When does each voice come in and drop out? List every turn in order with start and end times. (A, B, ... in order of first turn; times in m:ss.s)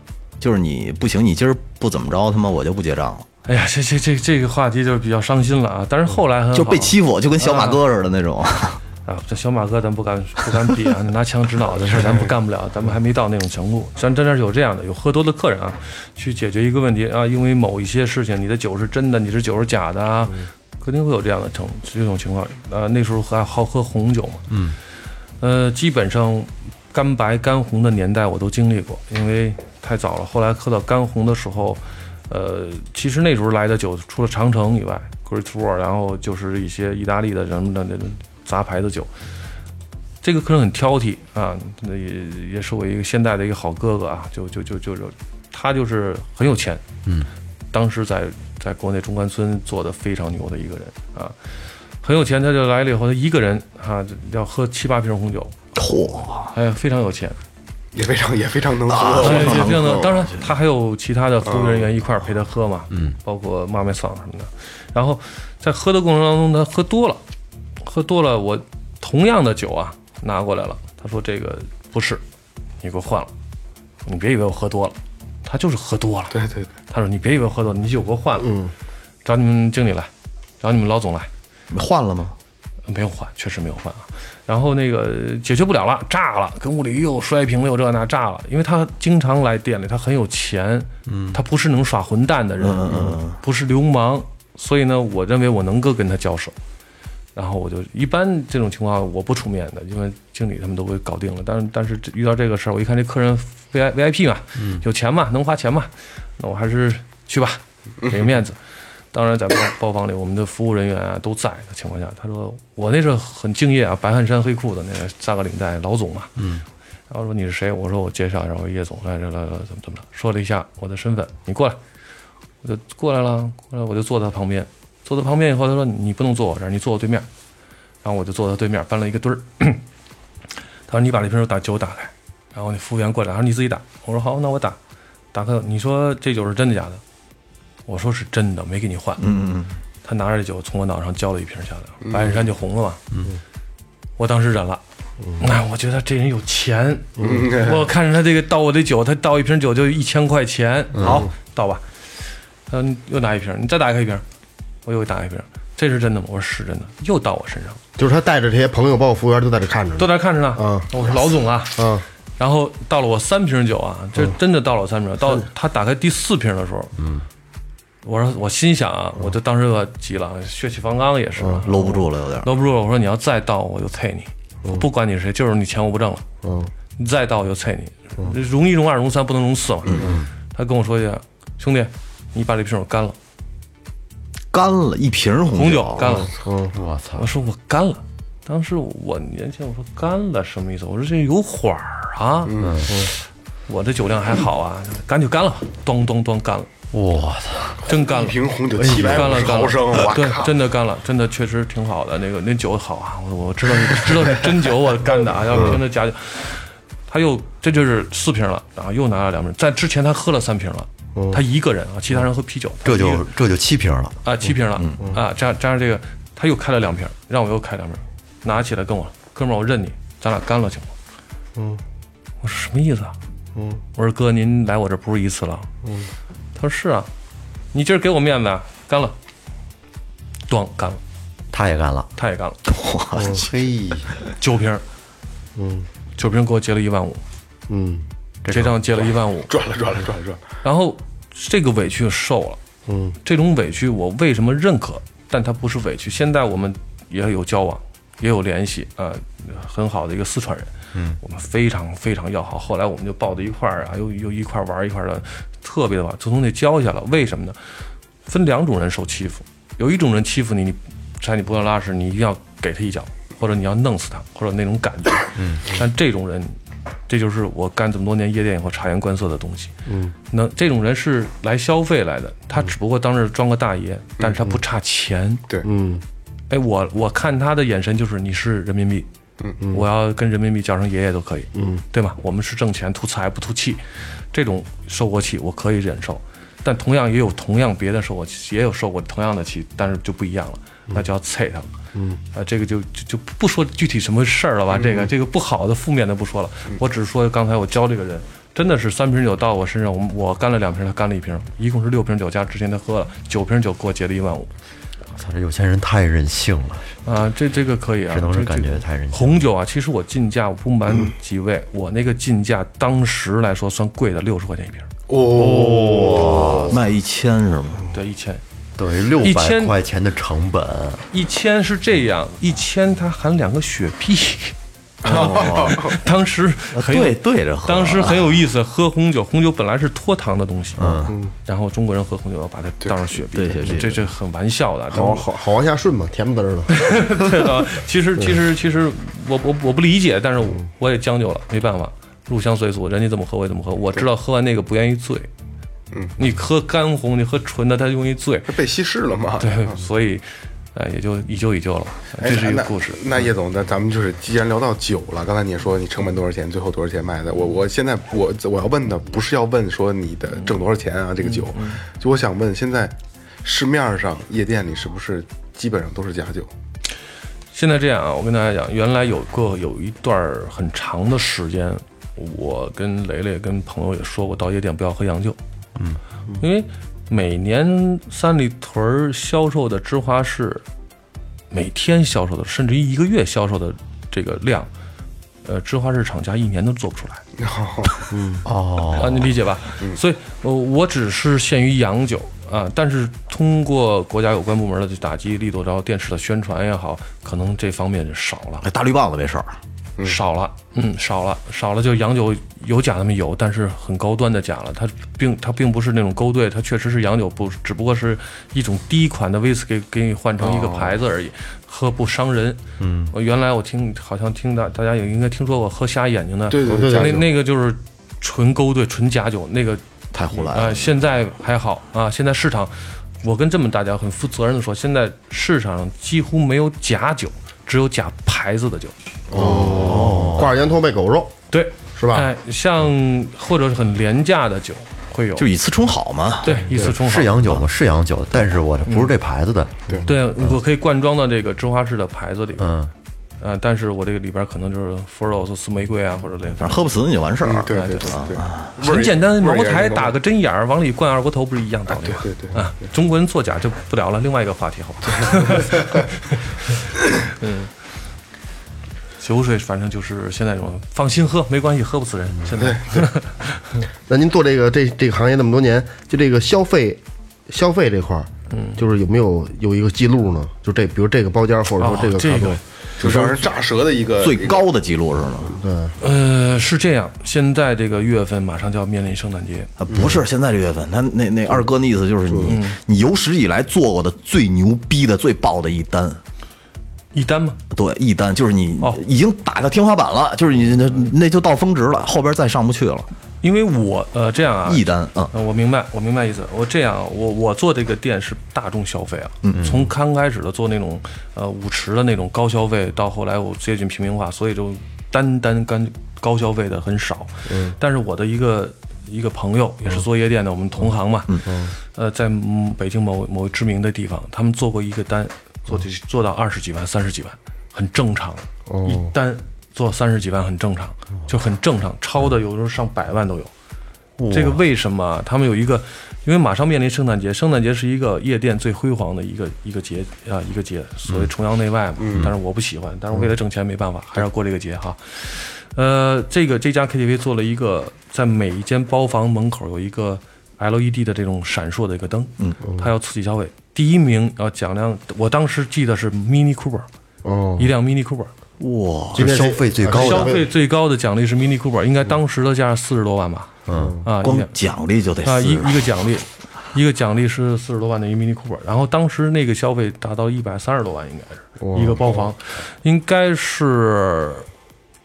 0:00.4-0:03.2 A
0:03.4-0:07.8 B
0:06.5-0:08.8 A
0:09.0-0:24.4 B
0:24.5-0:24.8 C
0:25.4-0:39.1 B
0:40.2-0:46.8 B
0:47.7-0:51.3 B
0:52.0-0:55.6 B
0:55.7-0:56.5 A
0:56.5-0:57.4 B
0:57.9-1:00.0 D
0:58.8-1:00.5 A
0:59.2-1:07.2 B
1:01.4-1:01.9 D
1:07.8-1:12.2 B
1:12.8-1:13.3 B
1:14.0-1:16.4 B
1:16.3-1:16.7 D
1:16.9-1:18.5 B
1:18.4-1:18.7 E
1:19.2-1:20.1 B
1:20.6-1:21.3 B
1:21.7-1:22.3 A
1:22.9-1:36.5 B
1:31.0-1:31.4 C
1:32.6-1:33.4 A
1:37.3-1:48.6 B
1:44.6-1:44.8 C
1:48.0-1:48.3 D
1:49.1-1:56.4 B
1:56.4-1:56.6 C
1:57.1-2:01.8 B
2:02.6-2:07.3 B
2:08.0-2:09.8 B
2:10.9-2:14.8 B
2:15.3-2:17.0 B
2:17.9-2:19.3 B
2:19.2-2:19.8 A
2:20.0-2:23.0 B
2:22.0-2:22.4 D
2:24.2-2:24.8 B
2:25.4-2:31.8 B
2:27.2-2:27.4 E
2:27.2-2:27.9 D
2:31.0-2:31.3 E
2:32.7-2:34.2 B
2:34.8-2:37.8 B
2:38.0-2:40.9 E
2:40.0-2:41.8 B
2:41.8-2:42.0 E
2:42.4-2:47.0 B
2:48.0-2:56.2 B
2:51.6-2:52.5 A
2:56.4-2:56.7 E
2:57.0-3:03.2 B
3:00.0-3:00.3 C
3:04.5-3:06.3 A
3:05.5-3:06.3 B
3:06.3-3:06.7 E
3:06.7-3:07.3 C
3:07.2-3:13.0 B
3:12.5-3:12.9 D
3:12.6-3:12.9 C
3:13.7-3:16.7 B
3:16.9-3:17.8 C
3:17.8-3:33.3 B
3:17.9-3:20.6 D
3:18.7-3:19.5 C
3:25.5-3:25.8 C
3:31.1-3:31.4 E
3:32.8-3:34.2 C
3:34.2-3:40.9 B
3:41.6-3:41.8 E
3:42.4-3:43.1 B
3:43.5-3:43.8 E
3:44.0-3:45.7 B
3:45.8-3:46.1 E
3:46.5-3:47.1 B
3:47.7-3:49.1 B
3:50.5-3:51.0 B
3:51.5-3:52.1 C
3:52.2-3:52.6 B
3:52.6-3:53.4 A
3:53.2-3:54.1 C
3:54.4-3:54.8 B
3:55.6-3:55.9 E
3:56.2-3:57.2 B
3:57.7-3:58.0 E
3:58.4-3:58.8 C
3:58.5-3:59.5 B
3:59.5-4:00.4 D
4:00.6-4:02.6 B
4:02.9-4:03.2 E
4:03.2-4:17.6 B
4:18.3-4:26.6 B
4:25.4-4:25.7 C
4:27.1-4:29.7 B
4:29.9-4:30.1 E
4:30.3-4:35.4 B
4:34.2-4:34.4 D
4:35.6-4:36.0 E
4:36.5-4:39.1 B
4:39.7-4:51.7 B
4:41.5-4:41.8 E
4:51.9-4:52.2 E
4:52.3-5:04.5 B
4:54.7-4:55.1 D
5:05.2-5:06.9 C
5:07.0-5:14.9 B
5:08.1-5:09.4 C
5:15.1-5:16.8 D
5:15.2-5:16.8 C
5:16.7-5:17.9 A
5:17.9-5:18.4 B
5:18.8-5:21.0 C
5:19.2-5:19.8 B
5:21.1-5:35.3 B
5:25.0-5:25.9 A
5:25.2-5:25.9 D
5:26.7-5:28.4 A
5:30.8-5:31.1 C
5:33.3-5:34.1 A
5:34.9-5:37.3 E
5:36.7-5:45.3 B
5:45.9-5:46.2 D
5:46.2-5:48.5 B
5:48.5-5:49.8 D
5:49.4-5:53.0 B
5:52.2-6:06.5 D
6:01.5-6:01.8 B
6:07.5-6:15.4 B
6:16.4-6:20.6 B
6:21.5-6:24.7 B
6:25.4-6:27.2 B
6:27.4-6:28.1 D
6:28.1-6:28.4 E
6:28.4-6:29.3 C
6:28.9-6:38.6 B
6:38.6-6:39.5 A
6:40.0-6:59.8 B
6:50.4-6:50.9 D
6:52.8-6:53.1 C
6:56.5-6:57.3 D
6:56.6-6:57.2 E
7:00.1-7:00.9 A
7:00.3-7:08.9 B
7:09.3-7:10.5 C
7:09.3-7:11.4 E
7:09.4-7:10.4 A
7:11.5-7:15.5 B
7:12.0-7:12.3 E
7:15.4-7:16.6 A
7:16.4-7:17.6 B
7:16.7-7:20.5 C
7:18.8-7:19.1 B
7:20.0-7:22.8 B
7:22.6-7:22.9 C
7:23.4-7:26.9 B
7:26.6-7:28.8 A
7:27.4-7:30.1 D
7:27.7-7:28.2 B
7:28.8-7:36.8 B
7:31.9-7:32.7 D
7:35.2-7:36.0 D
7:37.4-7:37.7 B
7:39.2-7:43.6 B
7:42.5-7:43.1 D
7:44.1-7:53.3 E
7:48.5-7:48.8 B
7:51.8-7:52.6 B
7:53.0-7:54.7 D
7:54.2-7:55.6 A
7:55.5-7:56.0 E
7:56.0-7:59.7 B
7:59.8-8:06.2 A
8:02.4-8:02.8 B
8:07.1-8:07.6 B
8:07.7-8:13.1 A
8:13.4-8:43.5 B
8:14.6-8:15.3 A
8:19.4-8:19.8 A
8:27.5-8:27.8 E
8:31.4-8:31.7 E
8:38.7-8:39.1 E
8:44.2-8:44.6 C
8:44.3-9:06.9 B
8:52.0-8:52.3 D
9:07.2-9:07.7 E
9:07.6-9:08.3 B
9:08.6-9:09.4 A
9:09.1-9:10.4 C
9:09.2-9:10.5 E
9:09.9-9:13.5 B
9:13.7-9:14.0 C
9:13.7-9:14.0 E
9:14.0-9:14.5 B
9:14.2-9:15.9 A
9:15.2-9:24.5 B
9:21.6-9:22.3 E